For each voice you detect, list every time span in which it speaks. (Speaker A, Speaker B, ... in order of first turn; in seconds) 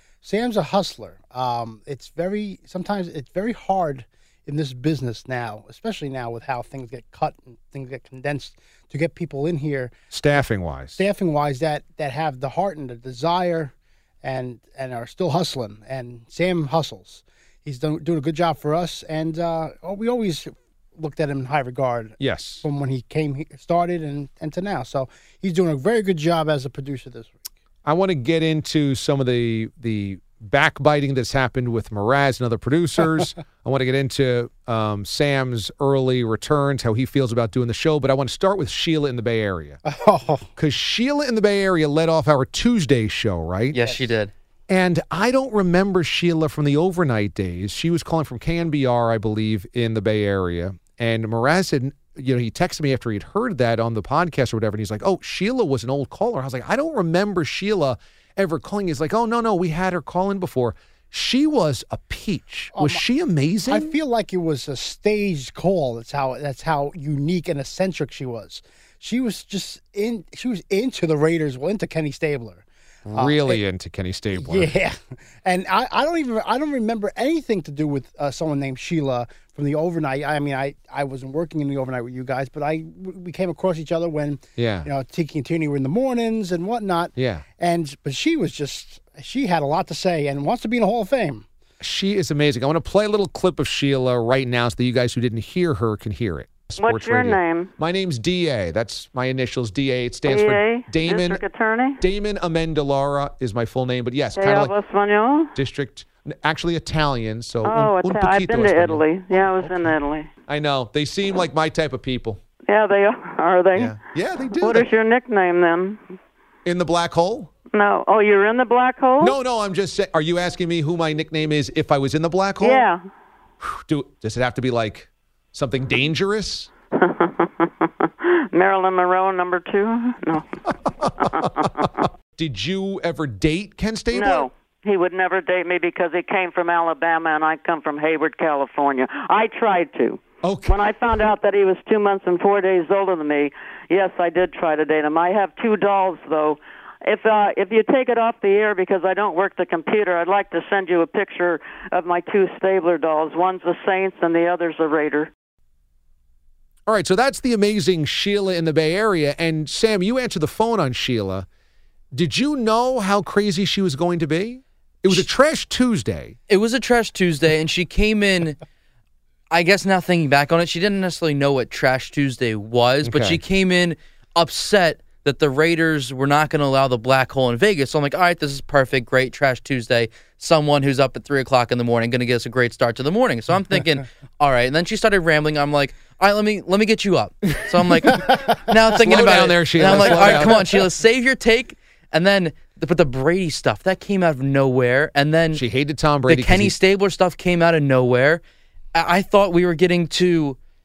Speaker A: 0.2-9.9, 11.0-27.4, 39.9-40.5, 62.7-63.0, 63.7-73.6, 74.3-91.4, 188.1-188.4, 189.9-190.5
Speaker B: 10.1-11.0, 22.2-22.6, 27.8-39.8, 40.5-43.8, 44.7-63.9, 73.1-74.7, 84.6-84.9, 87.2-87.4, 91.8-101.4, 102.0-104.7, 105.5-109.9, 110.5-112.4, 113.7-114.9, 116.7-117.5, 119.2-122.9, 123.6-126.7, 131.0-134.5, 140.4-140.8, 156.9-161.5, 162.1-166.3, 173.0-173.4, 189.0-190.7, 195.5-196.7
Speaker C: 43.7-44.3, 166.5-168.6, 169.5-195.6, 196.3-198.4, 198.9-200.6
Speaker D: 96.8-97.7, 100.2-102.0, 104.3-105.5, 107.6-110.3, 112.7-114.0, 114.5-116.0, 117.7-119.3, 122.6-123.0, 127.0-130.4, 131.2-131.8, 134.1-155.3